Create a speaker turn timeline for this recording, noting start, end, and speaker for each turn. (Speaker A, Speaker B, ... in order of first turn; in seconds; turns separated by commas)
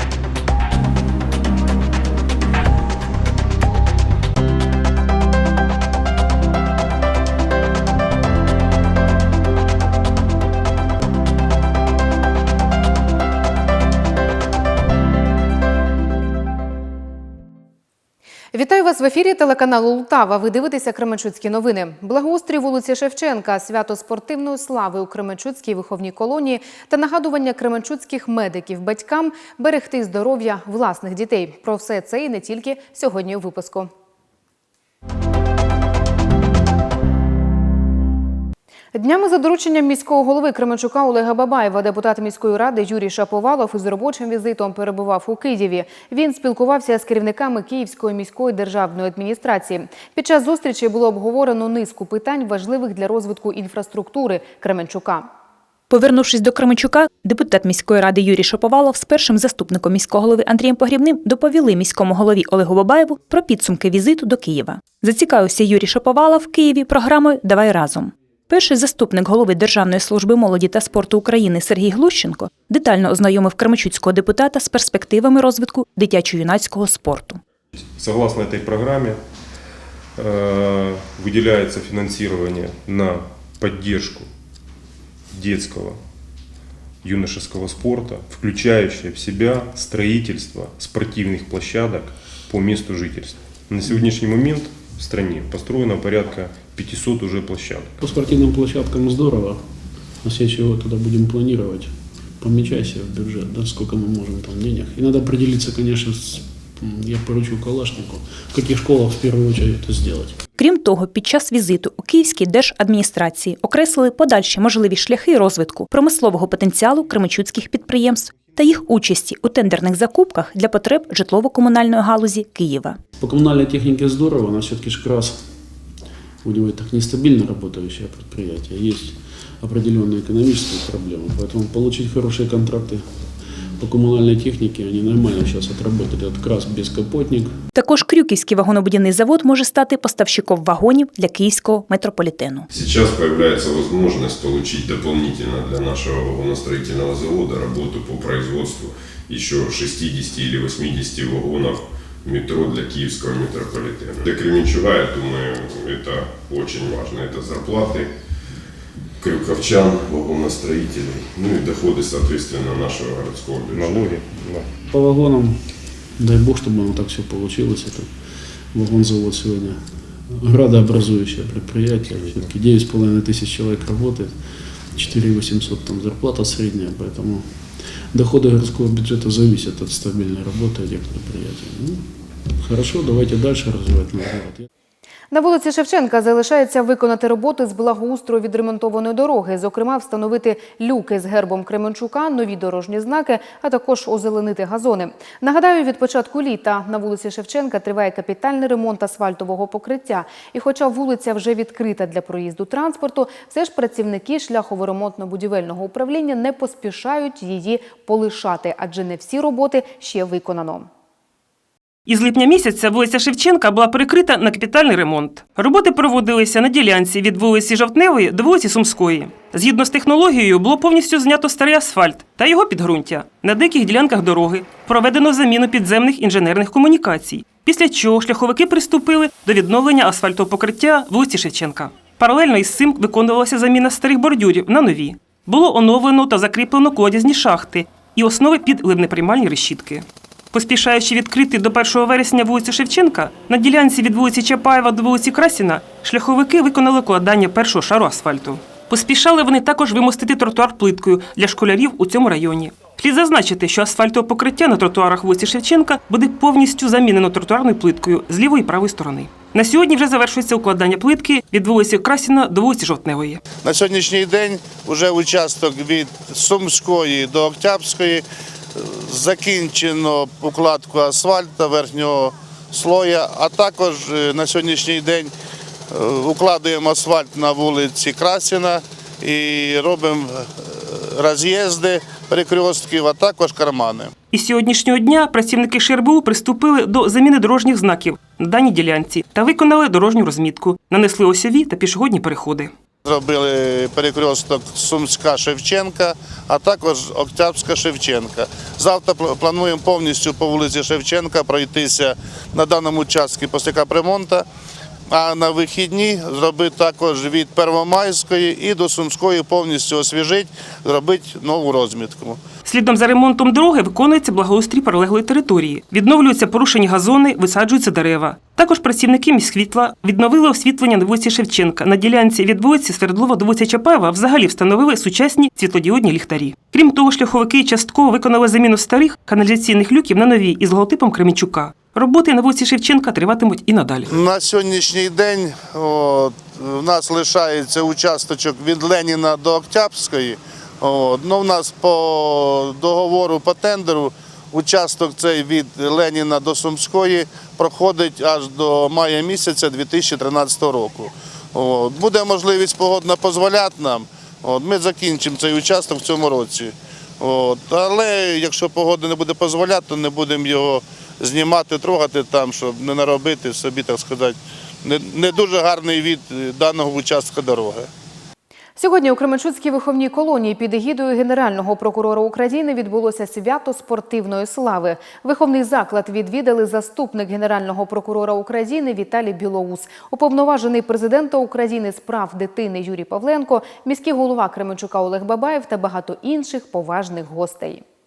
Speaker A: 18.5-33.9, Speaker A: 38.9-55.3, Speaker B: 55.9-77.4, Speaker C: 78.0-79.2, Speaker C: 80.2-84.3, Speaker C: 85.3-86.0, Speaker C: 87.0-97.9, Speaker D: 93.9-94.2, Speaker D: 98.0-99.6, Speaker D: 100.2-110.4, Speaker B: 110.6-123.0, Speaker D: 123.2-125.4, Speaker D: 126.4-133.3, Speaker D: 133.8-137.6, Speaker B: 137.8-142.7, Speaker E: 142.7-158.1, Speaker E: 159.2-164.2, Speaker C: 163.7-164.7, Speaker D: 164.9-168.1, Speaker D: 168.7-177.5, Speaker D: 178.1-182.0, Speaker D: 182.6-184.7, Speaker A: 185.3-210.9, Speaker F: 212.1-263.4, Speaker G: 263.6-268.2, Speaker G: 268.8-275.3, Speaker G: 275.9-284.1, Speaker F: 284.3-292.7, Speaker G: 293.1-304.5, Speaker G: 305.1-312.4, Speaker F: 312.6-334.1, Speaker G: 334.1-367.9, Speaker A: 368.8-387.8